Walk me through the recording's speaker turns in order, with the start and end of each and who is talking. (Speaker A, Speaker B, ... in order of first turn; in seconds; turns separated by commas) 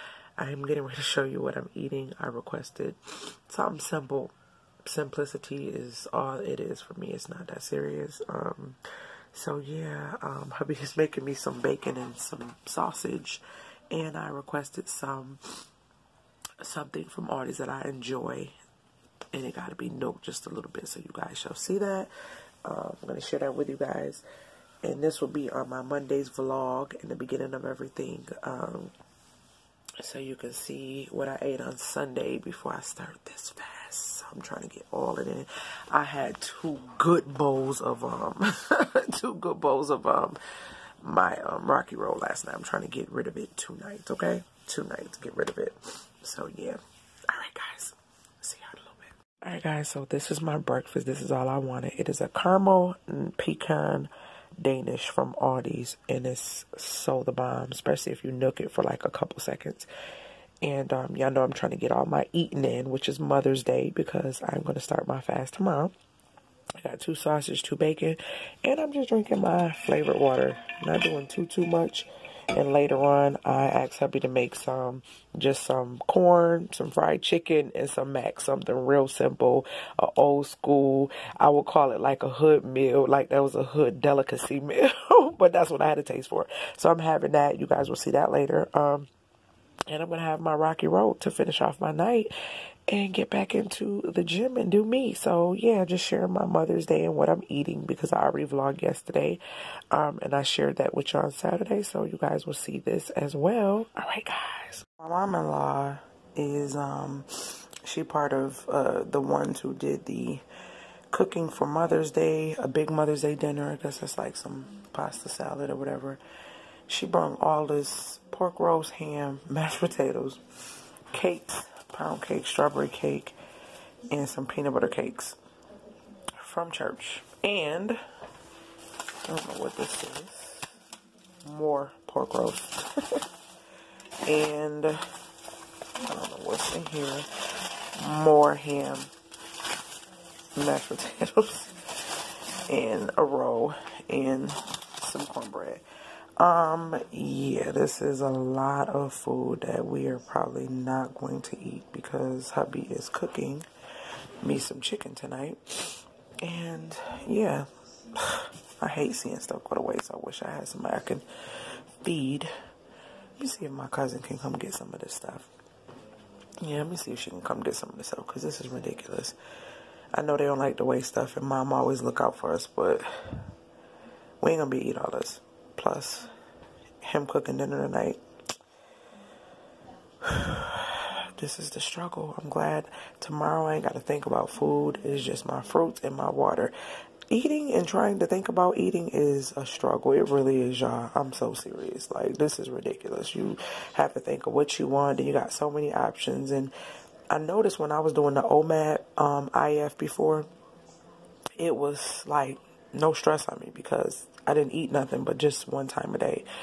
Speaker A: 0.4-3.0, Speaker A: 3.5-4.3, Speaker A: 4.8-8.8, Speaker A: 9.3-15.4, Speaker A: 16.6-18.6, Speaker A: 19.3-22.1, Speaker A: 22.6-24.2, Speaker A: 24.8-28.9, Speaker A: 30.0-40.4, Speaker A: 41.0-59.9, Speaker A: 60.6-65.9, Speaker A: 66.8-89.1, Speaker A: 89.9-92.3, Speaker A: 92.9-99.4, Speaker A: 99.9-110.4, Speaker A: 111.1-116.2, Speaker A: 116.9-120.4, Speaker A: 121.1-123.4, Speaker A: 124.1-125.4, Speaker A: 126.4-128.0, Speaker A: 129.3-130.7, Speaker A: 131.5-133.2, Speaker A: 134.3-135.0, Speaker A: 136.0-137.3, Speaker A: 138.0-139.1, Speaker A: 140.6-145.8, Speaker A: 146.4-153.7, Speaker A: 154.4-161.3, Speaker A: 162.0-162.5, Speaker A: 163.4-165.5, Speaker A: 166.6-169.4, Speaker A: 170.1-173.4, Speaker A: 174.4-176.3, Speaker A: 177.0-178.2, Speaker A: 180.2-186.7, Speaker A: 187.3-196.7, Speaker A: 197.3-200.5, Speaker A: 201.6-206.5